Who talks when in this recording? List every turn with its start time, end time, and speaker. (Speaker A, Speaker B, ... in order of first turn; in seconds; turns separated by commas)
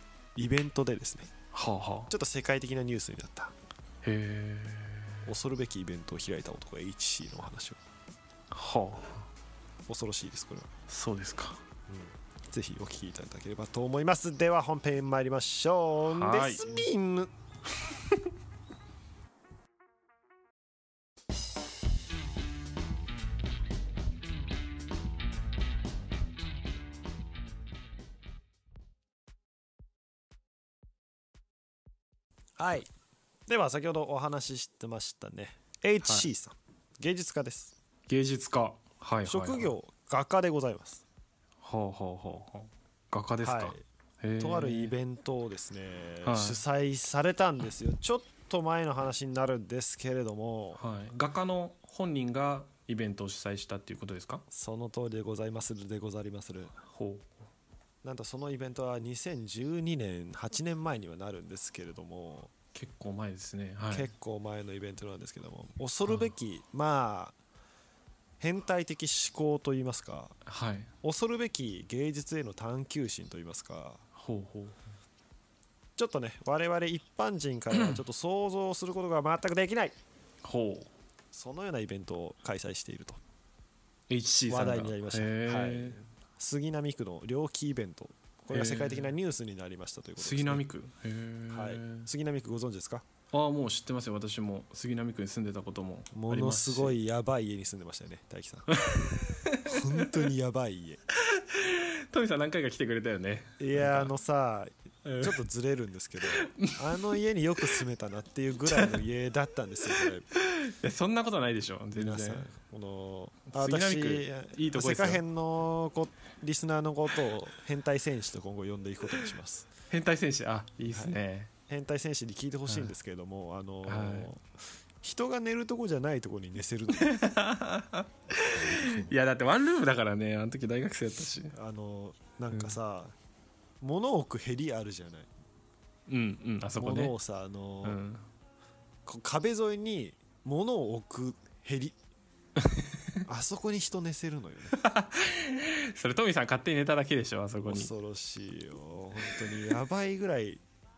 Speaker A: 0.3-1.3, Speaker B: 1.5-2.1, Speaker A: 2.1-3.5, Speaker B: 4.0-5.3, Speaker A: 5.2-7.8, Speaker B: 8.5-9.2, Speaker A: 9.9-10.7, Speaker B: 10.9-11.6, Speaker A: 11.9-17.3, Speaker B: 16.1-16.9, Speaker A: 32.6-32.9, Speaker A: 33.5-37.8, Speaker B: 38.1-39.7, Speaker A: 39.2-41.0, Speaker B: 41.6-45.0, Speaker A: 43.4-43.8, Speaker A: 44.4-50.8, Speaker B: 46.2-46.6, Speaker B: 50.8-54.4, Speaker A: 54.5-56.8, Speaker B: 56.8-57.3, Speaker A: 58.0-62.5, Speaker B: 62.7-64.1, Speaker A: 63.9-67.4, Speaker A: 68.4-70.4, Speaker B: 70.5-70.9, Speaker A: 71.0-74.0, Speaker B: 74.2-74.8, Speaker A: 76.0-80.0, Speaker B: 80.4-80.9, Speaker A: 81.3-83.2, Speaker B: 84.1-86.0, Speaker A: 84.5-90.6, Speaker B: 88.5-89.1, Speaker B: 90.2-92.1, Speaker A: 91.5-93.0, Speaker B: 93.3-97.0, Speaker A: 96.1-98.7, Speaker B: 98.7-100.1, Speaker A: 99.6-101.0, Speaker B: 101.2-104.1, Speaker A: 103.6-110.3, Speaker B: 105.0-105.4, Speaker B: 106.2-107.1, Speaker B: 110.3-112.5, Speaker A: 112.0-119.7, Speaker B: 113.5-115.2, Speaker B: 119.9-121.5, Speaker A: 120.9-124.5, Speaker B: 122.7-122.9, Speaker B: 123.8-124.3, Speaker A: 125.0-127.2, Speaker B: 127.0-131.6, Speaker A: 128.6-129.2, Speaker A: 131.5-133.2, Speaker A: 133.8-135.3, Speaker B: 136.1-137.2, Speaker A: 136.8-138.0, Speaker B: 137.8-138.2, Speaker A: 139.1-142.0, Speaker A: 143.3-144.8, Speaker B: 144.8-147.9, Speaker A: 147.6-150.6